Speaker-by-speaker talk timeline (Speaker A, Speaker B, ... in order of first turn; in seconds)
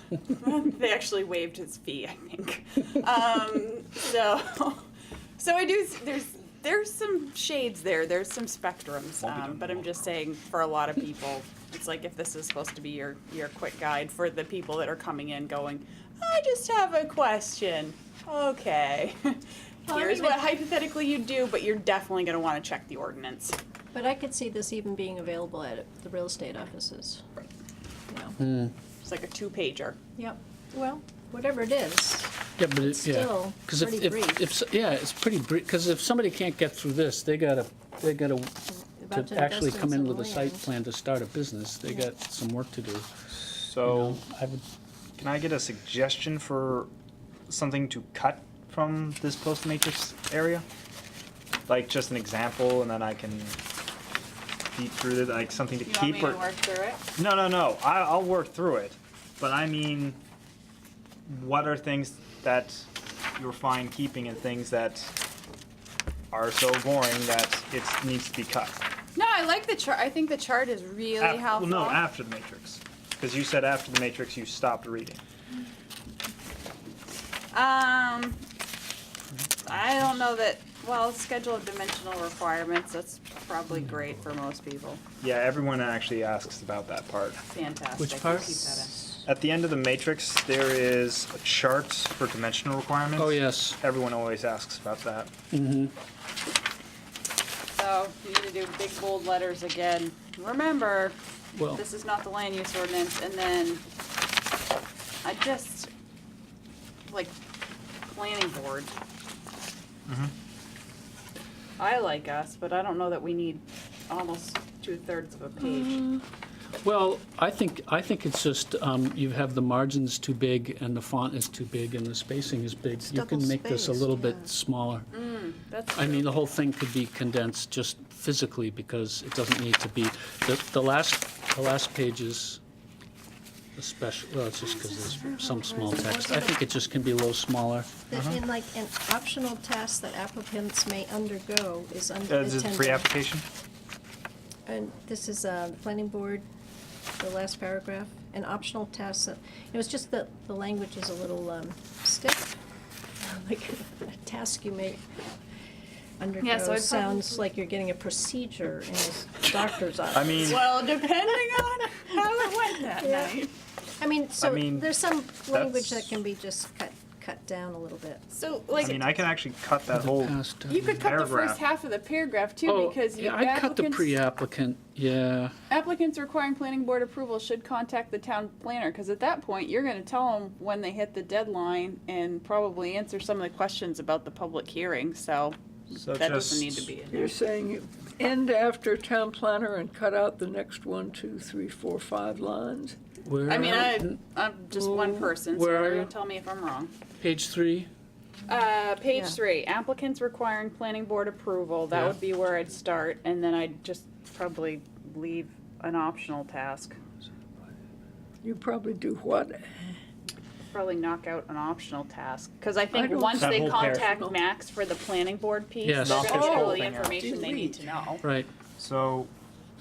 Speaker A: 0.2-4.9, 5.4-23.6, 29.0-30.0, 55.9-57.0, 69.2-72.0, 77.5-78.4, 79.6-85.0, 87.4-89.2, 97.7-101.2, 101.7-103.8, 105.2-105.9, 107.1-107.3, 108.1-108.9, 111.8-116.0, 125.1-126.4, 134.6-135.1, 156.4-157.4, 160.4-163.5, 168.3-169.2, 170.7-174.2, 175.7-187.4, 193.5-196.9, 198.5-207.0, 210.7-218.2
Speaker B: 9.2-10.0, 43.5-44.2, 45.2-46.9, 47.5-50.6, 51.7-53.6, 54.8-56.4, 57.2-60.2, 61.3-65.1, 66.3-68.8, 71.2-75.2, 85.2-87.4, 89.2-95.3, 110.1-110.3, 138.1-138.4, 142.3-143.4, 160.1-160.6, 164.4-165.0, 165.5-166.2, 168.8-170.4, 170.9-171.6, 185.9-186.9, 213.4-214.1, 216.0-217.2, 218.8-219.3
Speaker C: 19.9-20.5, 23.9-27.3, 28.1-28.4, 30.2-34.5, 38.7-40.7, 123.0-124.5, 135.3-136.7, 138.1-143.1, 144.7-146.4, 147.2-152.6, 153.2-155.0, 156.2-161.2, 162.9-163.4, 164.0-168.3
Speaker D: 28.4-28.7, 32.6-43.1, 43.8-44.6, 88.0-88.9, 93.2-93.8, 95.5-95.9, 101.5-101.8, 115.6-116.2, 116.8-125.1, 126.0-132.6, 133.8-138.0, 169.9-171.0, 172.7-175.5, 193.2-194.2, 194.8-196.1, 197.2-197.9, 201.9-202.2, 215.8-216.3, 218.2-218.5
Speaker E: 187.1-193.0, 208.4-209.8, 212.9-214.4, 216.1-217.9